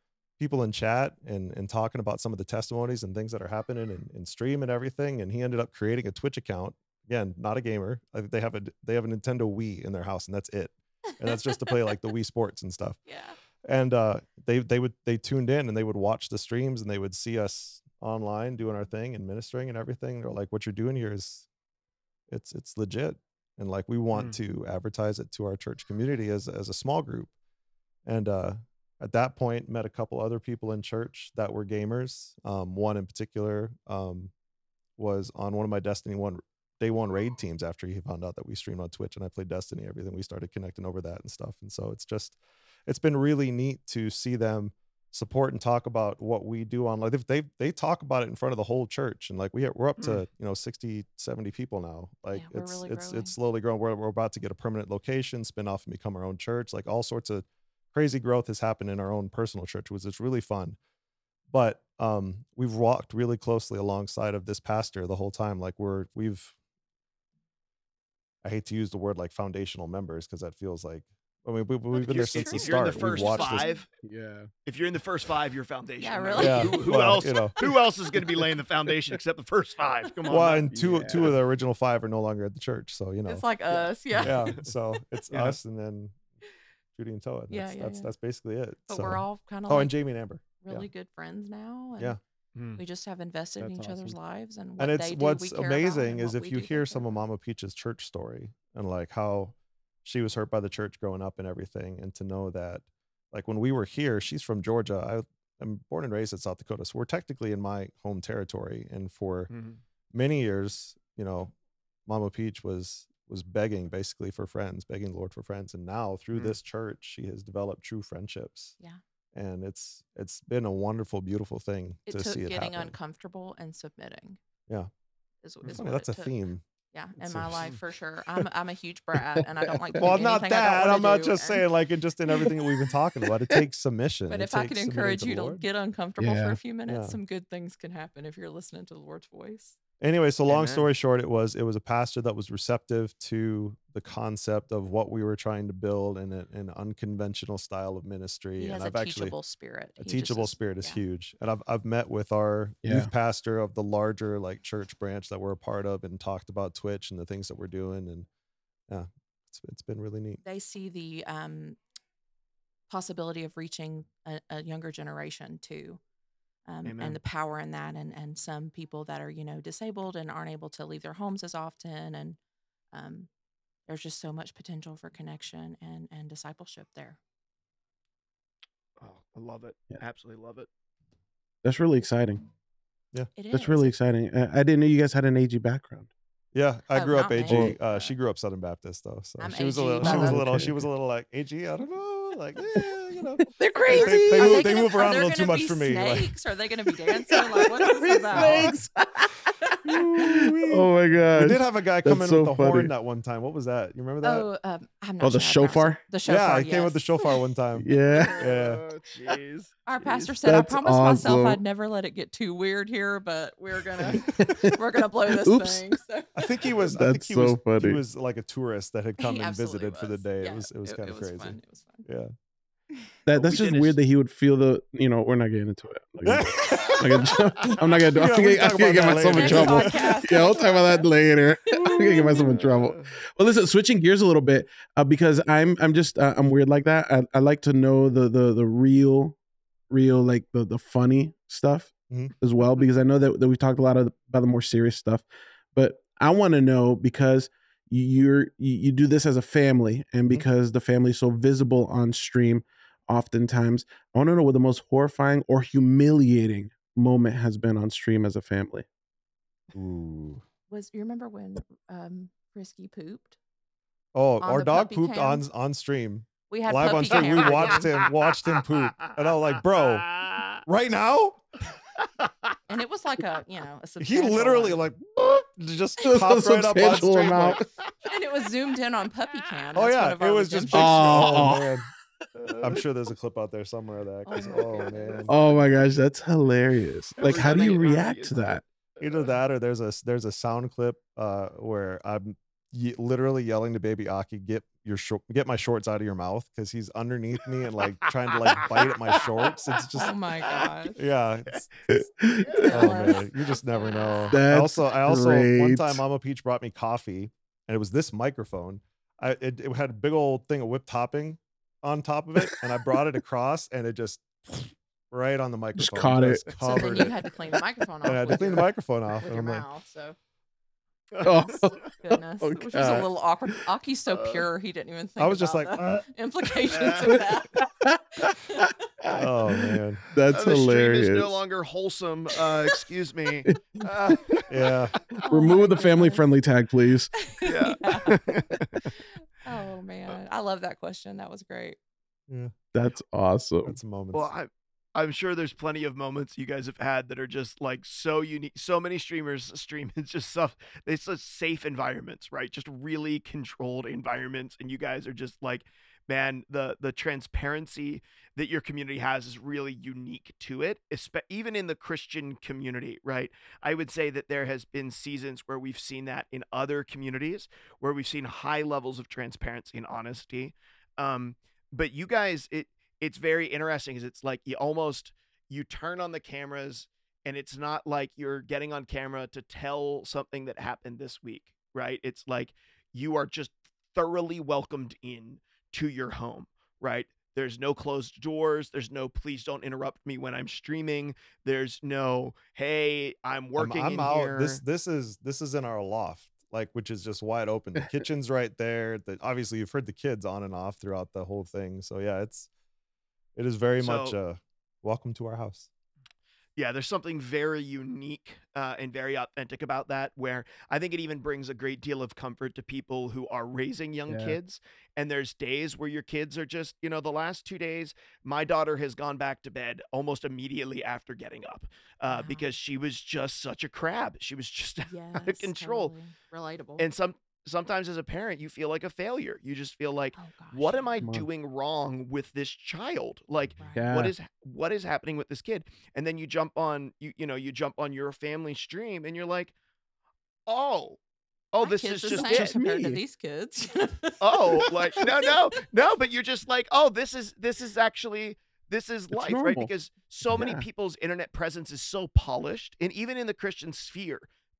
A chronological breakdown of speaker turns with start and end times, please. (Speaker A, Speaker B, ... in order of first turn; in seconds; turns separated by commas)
Speaker A: 0.4-13.0, Speaker B: 13.1-13.4, Speaker A: 13.6-21.5, Speaker A: 22.3-27.3, Speaker A: 28.1-34.3, Speaker A: 35.0-60.8, Speaker C: 50.0-50.2, Speaker B: 52.3-53.3, Speaker A: 61.5-66.6, Speaker A: 68.4-73.7, Speaker C: 72.0-73.9, Speaker B: 72.1-73.8, Speaker D: 74.0-74.5, Speaker C: 74.7-80.7, Speaker B: 76.0-77.3, Speaker A: 76.4-77.5, Speaker D: 80.3-81.3, Speaker A: 80.3-83.5, Speaker B: 83.3-84.6, Speaker A: 84.2-86.2, Speaker C: 84.2-84.6, Speaker C: 85.3-85.6, Speaker A: 87.0-90.9, Speaker B: 87.5-88.1, Speaker B: 88.9-90.0, Speaker B: 90.6-92.2, Speaker C: 92.5-92.8, Speaker B: 92.8-97.1, Speaker D: 93.6-94.2, Speaker A: 94.8-109.5, Speaker C: 109.5-109.8, Speaker A: 110.1-111.5, Speaker A: 112.1-118.8, Speaker A: 119.3-122.9, Speaker B: 122.1-124.4, Speaker B: 125.4-126.4, Speaker A: 125.7-126.6, Speaker B: 126.9-131.7, Speaker A: 127.2-127.7, Speaker D: 129.4-130.1, Speaker A: 129.9-135.7, Speaker B: 134.3-139.8, Speaker D: 136.2-136.6, Speaker A: 136.9-137.2, Speaker A: 140.0-149.4, Speaker C: 140.5-140.9, Speaker B: 148.6-151.0, Speaker A: 150.0-158.3, Speaker D: 152.8-153.1, Speaker A: 158.9-160.4, Speaker B: 160.4-161.8, Speaker B: 162.9-166.0, Speaker B: 166.7-172.4, Speaker C: 166.8-167.2, Speaker B: 172.9-173.3, Speaker B: 173.9-177.2, Speaker C: 179.0-180.7, Speaker D: 181.6-182.4, Speaker B: 183.3-183.9, Speaker D: 183.5-186.1, Speaker A: 186.5-196.3, Speaker B: 186.9-188.1, Speaker D: 187.5-187.8, Speaker B: 189.4-190.4, Speaker D: 190.0-190.8, Speaker D: 193.4-194.9, Speaker B: 193.6-199.9, Speaker D: 197.1-199.3, Speaker A: 198.3-198.7, Speaker D: 199.8-202.9, Speaker A: 199.8-204.5, Speaker B: 204.2-207.4, Speaker D: 205.2-206.0, Speaker A: 206.2-208.8, Speaker D: 207.8-208.4, Speaker B: 208.1-208.4, Speaker C: 208.2-210.3, Speaker B: 209.9-216.5, Speaker D: 210.4-211.6, Speaker D: 214.0-216.0, Speaker A: 216.3-222.3, Speaker D: 216.8-218.0, Speaker B: 219.2-222.1, Speaker D: 223.3-239.4, Speaker C: 223.3-224.0, Speaker A: 226.2-230.2, Speaker B: 229.3-231.1, Speaker C: 231.8-233.1, Speaker D: 239.9-258.9, Speaker A: 259.7-260.4, Speaker B: 260.7-263.4, Speaker A: 264.1-270.1, Speaker B: 264.4-265.4, Speaker B: 266.5-267.9, Speaker C: 267.2-270.6, Speaker A: 270.6-271.4, Speaker C: 272.0-272.6, Speaker B: 272.7-274.8, Speaker A: 274.0-277.6, Speaker D: 276.0-277.7, Speaker B: 278.1-281.0, Speaker A: 279.8-281.8, Speaker D: 280.7-281.9, Speaker C: 281.1-281.5, Speaker C: 282.4-282.8, Speaker A: 282.6-285.3, Speaker B: 284.2-285.3, Speaker D: 285.3-288.6, Speaker C: 287.2-289.3, Speaker A: 289.0-300.1, Speaker C: 297.8-299.9, Speaker B: 300.0-301.0, Speaker A: 300.9-302.1, Speaker D: 301.9-302.9, Speaker C: 302.4-302.9, Speaker B: 302.6-304.4, Speaker A: 302.6-317.1, Speaker D: 304.3-306.0, Speaker D: 315.8-317.4, Speaker B: 316.6-320.2, Speaker A: 318.0-319.6, Speaker C: 321.1-321.8, Speaker D: 321.2-323.1, Speaker B: 322.0-327.7, Speaker C: 324.1-324.4, Speaker A: 325.2-326.1, Speaker C: 326.8-327.2, Speaker D: 327.6-331.3, Speaker B: 328.2-328.7, Speaker A: 329.1-330.0, Speaker C: 330.3-334.6, Speaker D: 333.5-334.2, Speaker A: 334.5-335.0, Speaker B: 335.2-336.3, Speaker D: 335.2-337.1, Speaker B: 337.1-338.2, Speaker C: 337.4-338.8, Speaker D: 338.1-338.6, Speaker B: 338.9-341.8, Speaker D: 342.7-343.8, Speaker A: 343.6-344.3, Speaker C: 344.1-394.6, Speaker A: 393.6-402.5, Speaker A: 403.4-405.7, Speaker C: 403.8-404.2, Speaker C: 406.6-425.9, Speaker D: 414.1-414.4, Speaker B: 422.1-422.5, Speaker B: 424.9-426.9, Speaker C: 426.8-439.5, Speaker B: 430.1-431.1, Speaker D: 431.0-431.3, Speaker B: 433.6-433.9, Speaker D: 433.7-434.1, Speaker C: 440.5-441.0, Speaker C: 441.5-442.5, Speaker B: 441.6-445.3, Speaker D: 442.1-443.0, Speaker C: 444.2-454.3, Speaker D: 449.1-449.7, Speaker D: 450.3-450.7